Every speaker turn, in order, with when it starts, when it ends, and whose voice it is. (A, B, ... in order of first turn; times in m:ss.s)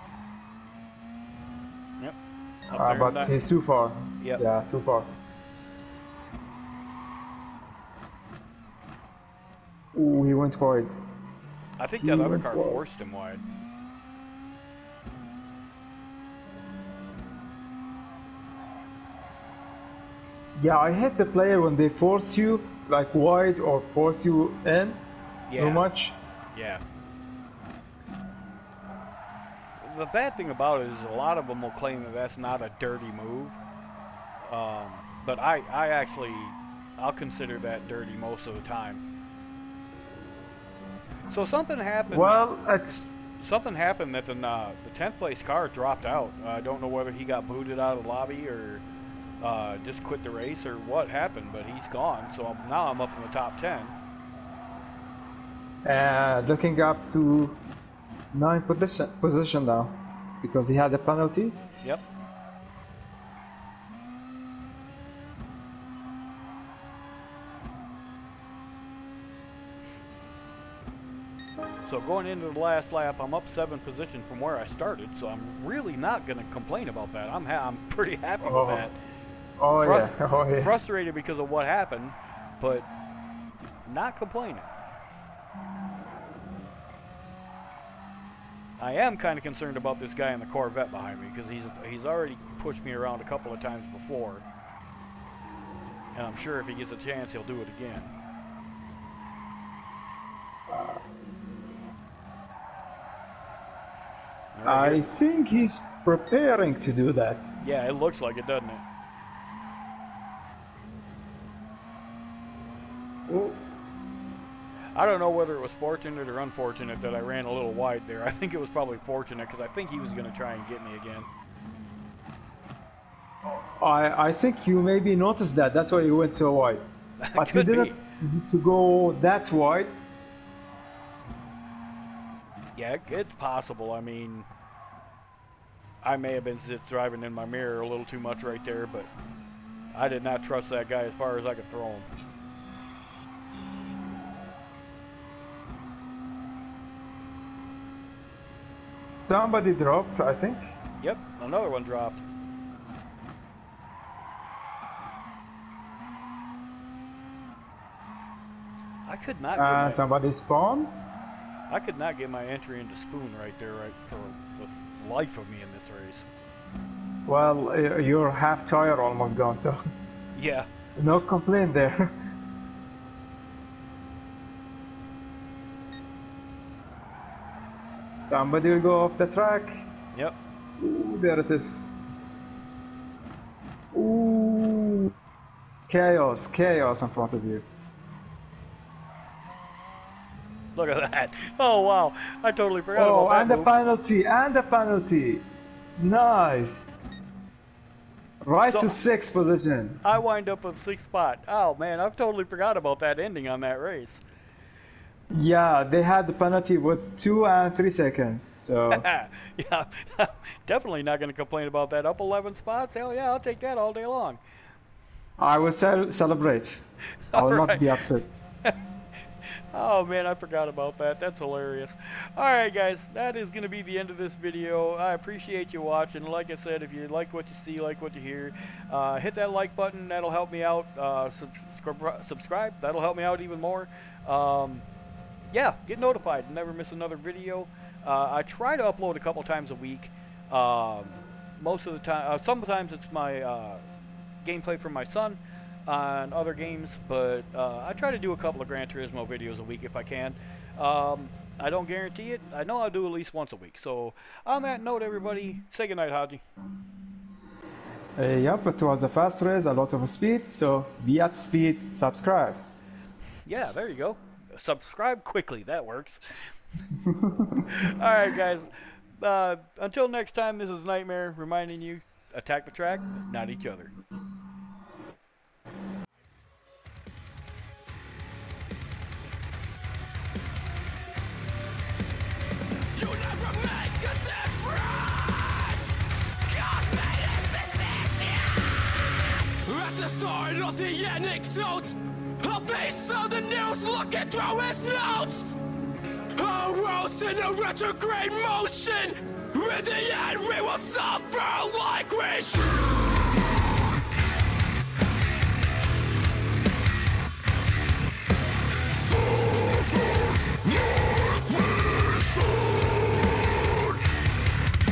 0:02.7-0:05.2 A
0:02.7-0:03.3 B
0:09.9-0:11.0 A
0:11.8-0:13.4 B
0:12.0-0:12.8 A
0:20.6-0:26.2 A
0:25.5-0:25.9 B
0:26.5-0:26.8 B
0:29.8-0:33.6 B
0:34.4-0:39.0 B
0:41.3-0:42.4 B
0:42.1-0:43.1 A
0:43.4-0:48.8 B
0:49.4-0:53.9 B
0:55.8-0:57.6 A
0:58.3-1:01.6 A
1:11.8-1:18.9 B
1:18.4-1:18.9 A
1:19.6-1:20.7 A
1:19.8-1:22.9 B
1:23.8-1:24.7 B
1:28.8-1:34.4 B
1:36.1-1:38.1 B
1:40.7-1:41.0 A
1:44.5-1:45.1 B
1:44.6-1:47.5 A
1:47.6-1:48.8 B
1:53.3-1:53.6 A
1:54.9-2:01.3 B
2:03.4-2:06.8 A
2:07.2-2:08.0 B
2:07.4-2:09.9 A
2:12.7-2:14.5 B
2:16.0-2:19.1 B
2:19.9-2:22.1 B
2:29.3-2:30.7 A
2:31.0-2:32.2 B
2:39.0-2:40.0 B
2:39.6-2:40.9 A
2:41.7-2:46.2 B
2:47.2-2:49.8 A
2:50.3-2:50.7 B
2:51.0-2:52.2 A
2:58.3-2:59.7 A
3:00.8-3:01.8 A
3:03.9-3:05.1 A
3:05.9-3:07.6 A
3:10.7-3:13.7 B
3:12.9-3:15.5 A
3:16.0-3:17.0 A
3:18.4-3:20.0 A
3:18.6-3:19.0 B
3:20.0-3:24.2 B
3:25.3-3:29.0 A
3:28.9-3:34.4 B
3:35.4-3:36.8 A
3:37.3-3:38.0 B
3:37.3-3:38.4 A
3:39.7-3:54.8 B
3:55.5-4:03.8 B
4:04.4-4:16.4 B
4:18.2-4:22.6 A
4:23.4-4:26.4 B
4:27.0-4:27.6 A
4:27.7-4:33.9 B
4:42.9-4:55.6 C
4:56.4-5:02.9 C
5:08.9-5:12.8 C
5:13.4-5:14.0 C